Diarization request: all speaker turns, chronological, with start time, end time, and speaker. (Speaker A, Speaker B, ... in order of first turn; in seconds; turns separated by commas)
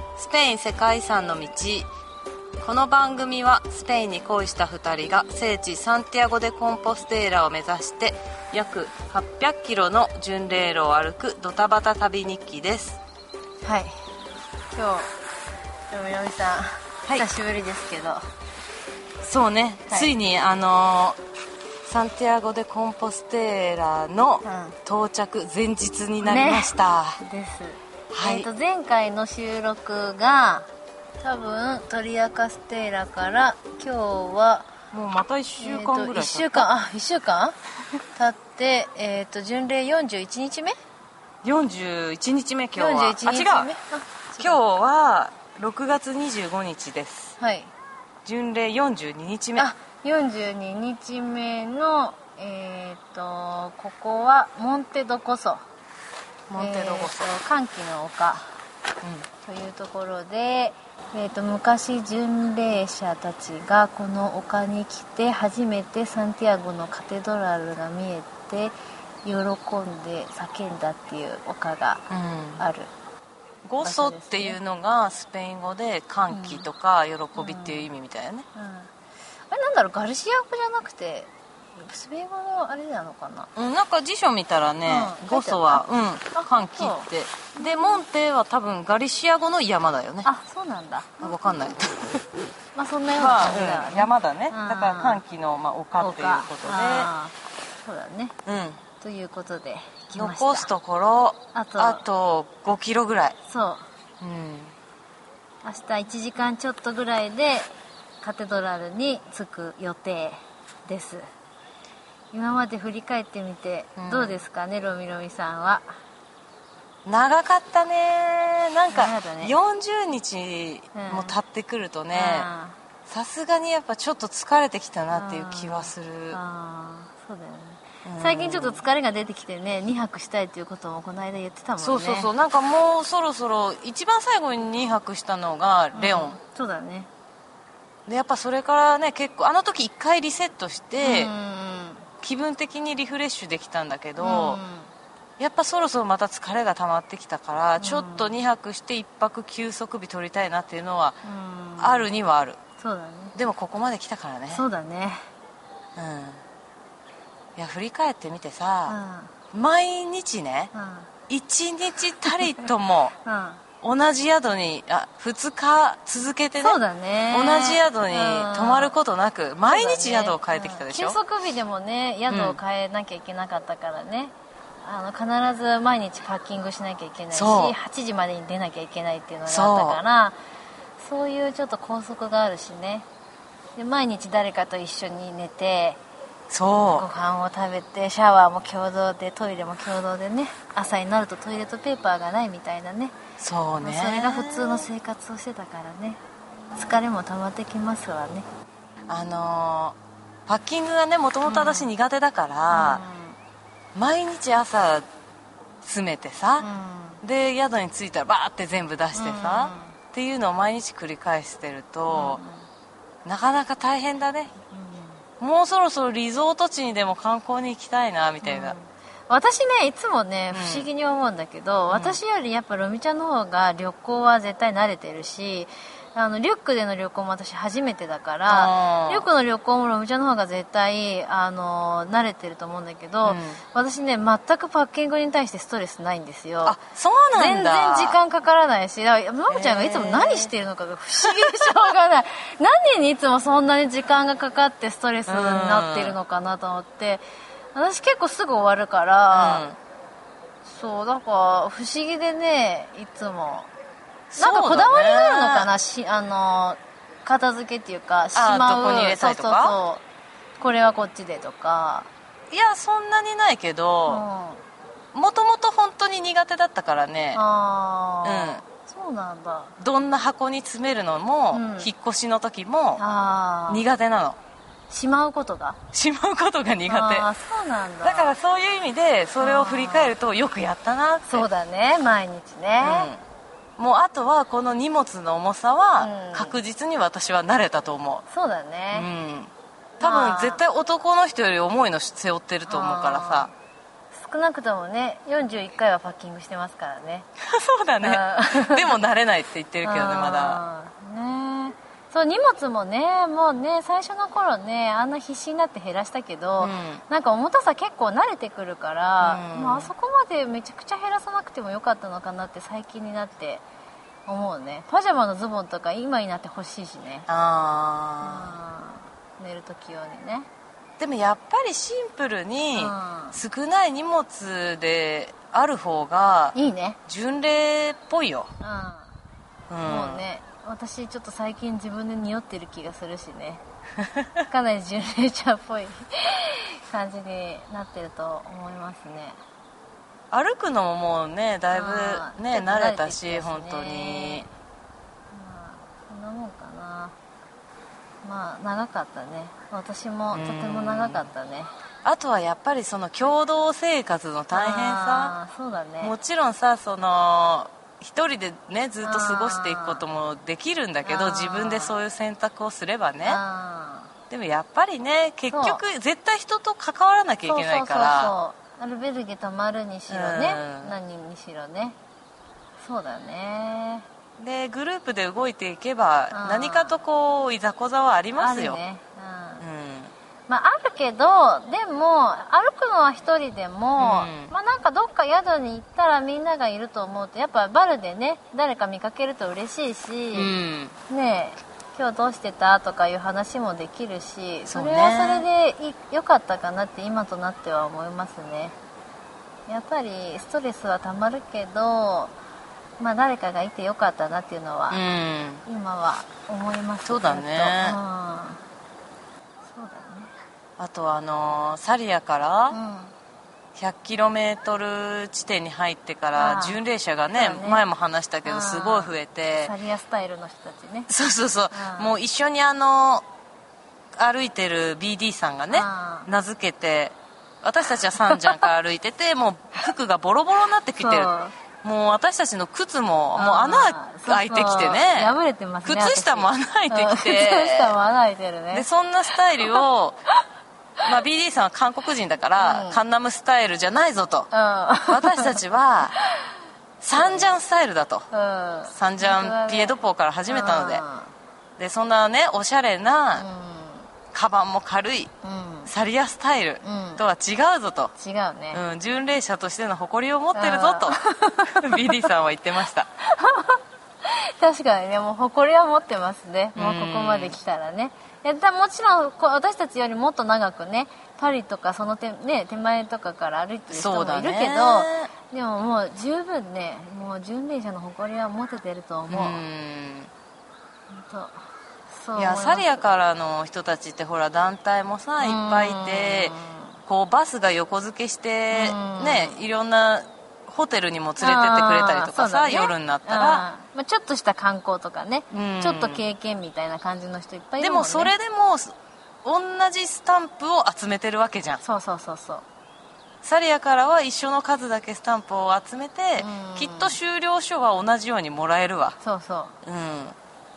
Speaker A: 0.2-1.9, Speaker A: 2.6-13.0, Speaker B: 13.6-13.9, Speaker B: 14.7-15.1, Speaker B: 15.9-18.2, Speaker A: 19.2-21.2, Speaker B: 19.9-20.1, Speaker A: 21.8-27.2, Speaker B: 24.4-24.8, Speaker B: 26.2-30.7, Speaker A: 28.1-28.5, Speaker B: 31.2-34.7, Speaker A: 34.9-36.7, Speaker B: 35.6-37.5, Speaker B: 38.1-40.8, Speaker A: 41.4-43.7, Speaker B: 42.7-44.6, Speaker A: 44.4-47.4, Speaker B: 47.4-47.7, Speaker A: 48.2-49.7, Speaker B: 49.6-55.6, Speaker A: 56.5-57.3, Speaker B: 56.5-58.5, Speaker A: 59.0-59.3, Speaker B: 59.4-72.0, Speaker A: 72.1-72.6, Speaker B: 72.6-72.9, Speaker A: 73.6-78.5, Speaker B: 73.8-74.6, Speaker B: 76.3-76.7, Speaker B: 77.3-77.9, Speaker B: 78.5-78.9, Speaker B: 79.5-83.5, Speaker A: 83.5-90.3, Speaker B: 84.8-87.9, Speaker B: 90.2-91.4, Speaker A: 91.2-92.2, Speaker B: 92.7-95.2, Speaker A: 93.2-97.1, Speaker B: 96.0-98.3, Speaker A: 98.5-98.8, Speaker B: 99.0-100.7, Speaker A: 100.1-103.3, Speaker B: 101.5-102.0, Speaker B: 103.5-103.8, Speaker A: 104.2-104.7, Speaker B: 105.6-107.7, Speaker B: 108.2-111.2, Speaker B: 112.3-115.9, Speaker A: 114.0-114.4, Speaker A: 117.0-122.5, Speaker B: 118.9-119.6, Speaker B: 120.9-121.4, Speaker B: 122.1-122.8, Speaker A: 123.1-126.4, Speaker B: 125.1-132.3, Speaker A: 128.0-128.8, Speaker A: 131.8-136.4, Speaker B: 135.9-137.1, Speaker A: 138.1-141.3, Speaker B: 141.0-142.1, Speaker A: 142.2-144.6, Speaker B: 144.2-144.9, Speaker A: 145.4-151.2, Speaker B: 147.8-148.3, Speaker B: 151.2-152.1, Speaker A: 151.8-152.6, Speaker B: 152.8-153.3, Speaker A: 153.3-154.6, Speaker B: 154.5-155.2, Speaker A: 155.9-156.4, Speaker A: 157.6-158.9, Speaker B: 158.9-159.3, Speaker A: 159.5-160.7, Speaker B: 160.7-161.1, Speaker A: 161.3-163.1, Speaker B: 163.2-163.6, Speaker A: 163.8-166.8, Speaker B: 166.6-168.9, Speaker A: 167.3-171.2, Speaker B: 169.7-180.4, Speaker A: 172.3-172.6, Speaker A: 177.3-177.8, Speaker A: 179.5-180.0, Speaker B: 181.0-183.1, Speaker B: 183.8-186.0, Speaker A: 186.5-187.1, Speaker B: 186.7-193.2, Speaker A: 193.4-194.9, Speaker B: 193.8-196.2, Speaker B: 196.7-198.4, Speaker A: 199.1-203.0, Speaker B: 201.4-201.9, Speaker B: 202.7-203.4, Speaker A: 203.9-205.1, Speaker A: 205.8-206.7, Speaker B: 206.6-207.2, Speaker A: 207.2-212.4, Speaker B: 209.1-209.9, Speaker B: 212.1-212.6, Speaker A: 213.2-214.5, Speaker B: 214.7-215.2, Speaker A: 215.4-218.8, Speaker B: 218.4-236.8, Speaker A: 220.5-220.9, Speaker A: 221.9-222.2, Speaker A: 228.5-229.3, Speaker A: 233.2-233.6, Speaker A: 236.6-238.2, Speaker B: 237.3-247.2, Speaker A: 239.5-240.5, Speaker A: 241.2-241.6, Speaker A: 245.3-246.2, Speaker B: 247.7-249.7, Speaker A: 249.3-249.8, Speaker B: 250.6-253.7, Speaker A: 254.3-255.7, Speaker B: 254.4-260.0, Speaker A: 258.3-259.7, Speaker B: 260.6-262.1, Speaker A: 262.5-264.2, Speaker B: 264.1-264.6, Speaker A: 265.1-267.4, Speaker B: 267.3-269.8, Speaker A: 268.2-268.6, Speaker A: 269.8-273.0, Speaker B: 271.5-271.9, Speaker B: 273.0-273.8, Speaker A: 273.7-274.4, Speaker B: 274.9-275.8, Speaker A: 275.9-277.3, Speaker B: 276.9-278.4, Speaker A: 278.0-281.4, Speaker B: 279.4-280.1, Speaker B: 281.2-283.1, Speaker A: 282.8-283.2, Speaker A: 283.8-288.2, Speaker B: 286.0-286.6, Speaker B: 288.3-289.1, Speaker A: 288.9-293.5, Speaker B: 290.0-290.6, Speaker B: 292.7-293.5, Speaker B: 294.1-297.3, Speaker A: 297.4-300.6, Speaker B: 298.0-298.9, Speaker B: 299.8-313.6, Speaker A: 306.6-307.0, Speaker A: 309.2-309.9, Speaker B: 314.3-317.3, Speaker A: 317.3-318.6, Speaker B: 318.2-320.5, Speaker A: 321.0-326.5, Speaker B: 322.8-323.4, Speaker B: 326.5-327.0, Speaker A: 327.1-328.5, Speaker B: 328.6-329.1, Speaker A: 329.7-330.2, Speaker B: 329.8-333.6, Speaker B: 334.5-339.4, Speaker A: 340.3-344.5, Speaker B: 341.7-344.4, Speaker B: 345.3-347.1, Speaker B: 348.2-351.7, Speaker A: 350.3-351.2, Speaker A: 352.0-355.3, Speaker B: 354.5-356.1, Speaker A: 356.0-363.4, Speaker B: 359.0-360.0, Speaker B: 361.0-361.9, Speaker B: 363.2-364.1, Speaker A: 364.3-368.3, Speaker B: 365.5-365.8, Speaker B: 367.4-372.0, Speaker A: 370.1-370.9, Speaker B: 372.8-374.1, Speaker A: 374.4-378.8, Speaker B: 376.3-376.9, Speaker B: 378.4-379.6, Speaker A: 379.6-380.1, Speaker B: 380.5-390.5, Speaker A: 384.0-384.5, Speaker A: 390.3-390.9, Speaker B: 391.1-398.8, Speaker A: 394.7-395.4, Speaker B: 399.7-402.3, Speaker B: 403.0-405.0, Speaker A: 404.9-405.6, Speaker B: 405.6-408.6, Speaker A: 407.0-408.0, Speaker B: 409.7-410.3, Speaker A: 410.8-412.8, Speaker B: 412.7-413.1, Speaker A: 413.7-419.7, Speaker B: 416.3-416.8, Speaker B: 417.3-417.8, Speaker B: 418.4-421.1, Speaker A: 421.1-423.2, Speaker B: 421.7-422.1, Speaker A: 424.1-431.3, Speaker B: 425.7-426.3, Speaker B: 428.2-428.6, Speaker B: 431.0-431.6, Speaker A: 431.8-435.3, Speaker B: 433.4-439.8, Speaker A: 435.8-437.9, Speaker A: 438.7-440.2, Speaker A: 441.0-444.5, Speaker B: 442.6-443.0, Speaker B: 444.5-445.6, Speaker A: 445.1-446.1, Speaker B: 446.2-446.5, Speaker A: 447.0-448.2, Speaker B: 447.1-447.5, Speaker B: 448.3-451.3, Speaker A: 448.9-451.0, Speaker A: 451.8-453.4, Speaker B: 453.3-454.1, Speaker A: 454.3-455.3, Speaker B: 455.4-455.9, Speaker A: 455.9-458.1, Speaker B: 456.8-457.2, Speaker B: 458.1-458.8, Speaker A: 458.7-463.1, Speaker B: 460.5-462.3, Speaker B: 463.2-479.6, Speaker A: 466.7-467.6, Speaker A: 473.9-475.3, Speaker A: 479.3-480.3, Speaker B: 481.1-481.6, Speaker B: 482.1-483.1, Speaker A: 482.4-486.6, Speaker B: 485.4-487.0, Speaker A: 487.1-493.6, Speaker B: 488.7-489.6, Speaker B: 491.4-498.3, Speaker A: 495.5-496.2, Speaker A: 497.8-501.8, Speaker B: 501.8-502.6, Speaker A: 503.4-509.2, Speaker B: 506.4-507.2, Speaker B: 509.2-509.7, Speaker A: 509.8-510.4